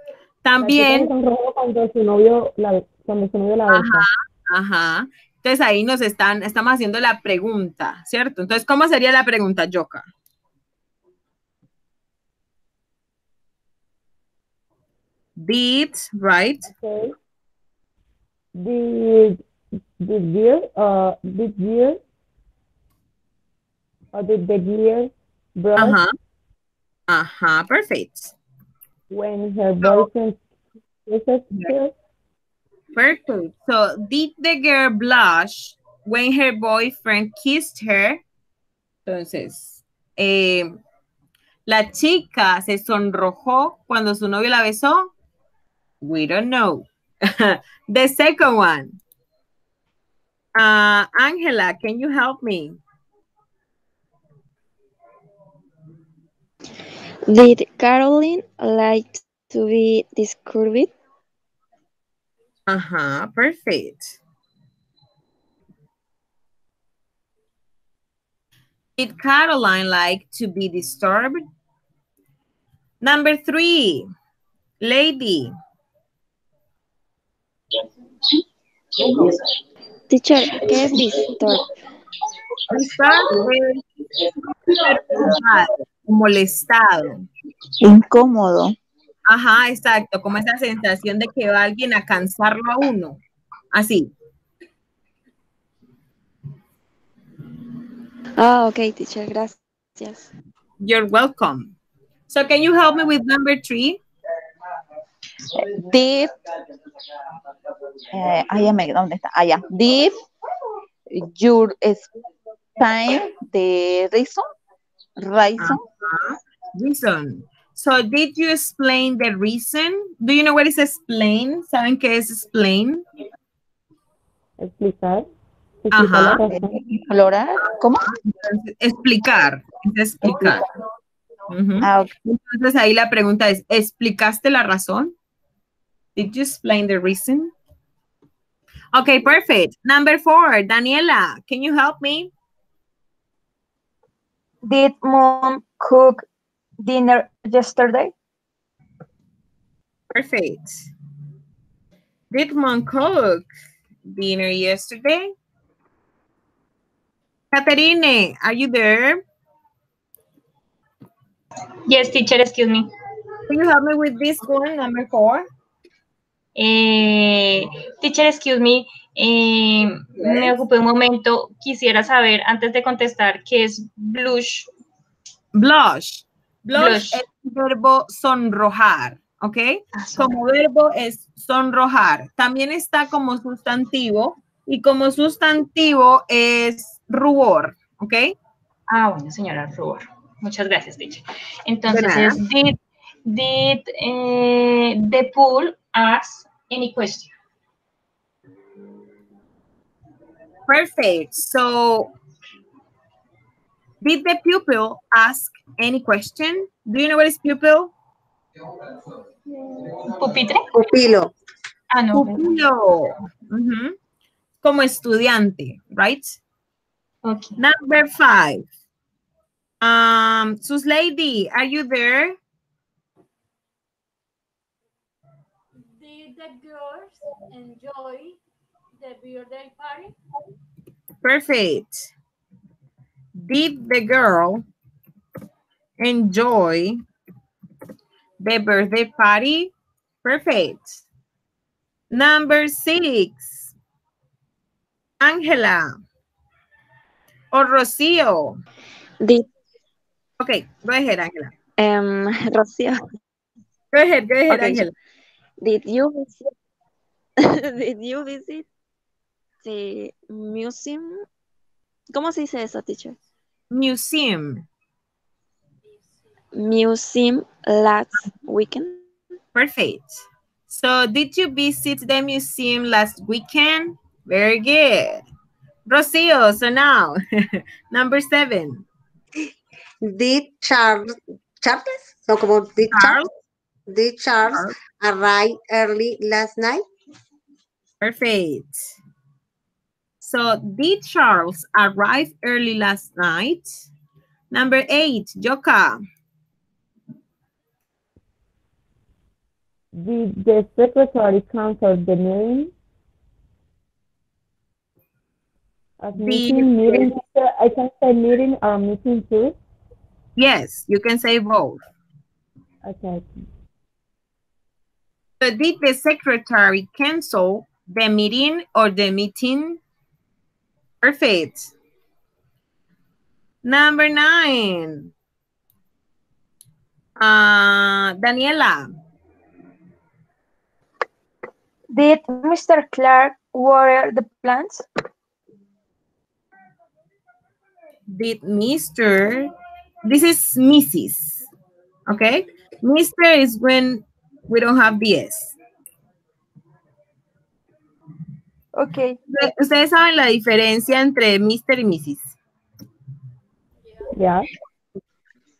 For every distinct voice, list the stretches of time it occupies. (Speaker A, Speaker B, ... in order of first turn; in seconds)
Speaker A: 0.4-1.1, 3.7-10.1, 15.4-16.7, 25.8-26.1, 27.1-28.3, 29.8-30.1, 33.0-38.2, 39.1-40.8, 41.7-45.1, 46.0-49.0, 50.6-52.8, 62.7-64.2, 69.0-71.4, 73.0-74.1, 74.8-75.5, 82.7-83.8, 84.8-87.2, 89.3-93.2, 93.7-94.1, 100.8-101.8, 102.3-104.0, 115.6-123.0, 125.9-126.5, 128.0-130.6, 131.5-135.1, 136.2-137.5, 138.9-142.3, 150.1-150.7, 152.3-153.5, 154.1-155.3, 157.5-159.2, 163.5-165.4, 170.2-170.5, 175.6-188.3, 191.9-192.4, 200.7-202.1, 204.0-207.9, 212.1-214.0, 214.6-216.4, 217.6-218.7, 219.8-222.4, 231.2-232.1, 233.4-234.6, 236.0-237.0, 238.4-239.7, 240.2-241.0, 242.1-243.7, 245.2-246.0, 247.5-248.6, 250.4-251.5, 253.9-254.9, 263.7-264.6, 269.6-275.2, 275.9-278.9, 282.9-283.3, 284.5-284.8, 288.0-288.8, 290.2-293.8, 294.5-296.0, 306.2-307.1, 310.4-311.8, 315.4-319.8, 321.0-321.7, 323.6-325.1, 327.2-328.9, 338.1-339.5, 340.1-341.4, 342.1-345.6, 349.3-352.4
Speaker B: 0.6-4.1, 16.7-17.1, 18.6-19.4, 20.0-22.0, 24.1-26.0, 29.1-30.4, 31.1-31.9, 124.6-125.3, 125.8-127.0, 300.0-302.7, 306.0-309.6, 312.9-313.3, 354.1-354.5
Speaker C: 57.3-60.9, 80.1-81.6, 98.4-100.3, 249.2-249.5, 251.8-253.0, 254.5-254.8, 255.6-256.5, 257.4-258.7, 259.6-261.2, 262.1-263.2, 266.5-269.1
Speaker D: 87.8-88.7, 105.6-106.3, 108.1-110.2, 111.1-112.1, 112.8-114.5, 115.2-115.8, 127.0-128.0, 131.8-132.1
Speaker E: 144.7-146.2, 146.8-148.1, 331.9-334.8, 348.8-349.2
Speaker F: 161.9-162.9, 166.6-174.7, 176.7-177.2, 179.9-180.4, 188.9-192.7, 193.2-197.3, 210.1-210.7, 211.9-212.4, 217.2-217.5
Speaker G: 210.7-211.3, 280.0-283.2, 283.9-286.8
Speaker H: 225.8-228.4, 229.0-230.1, 265.9-266.3, 353.9-354.1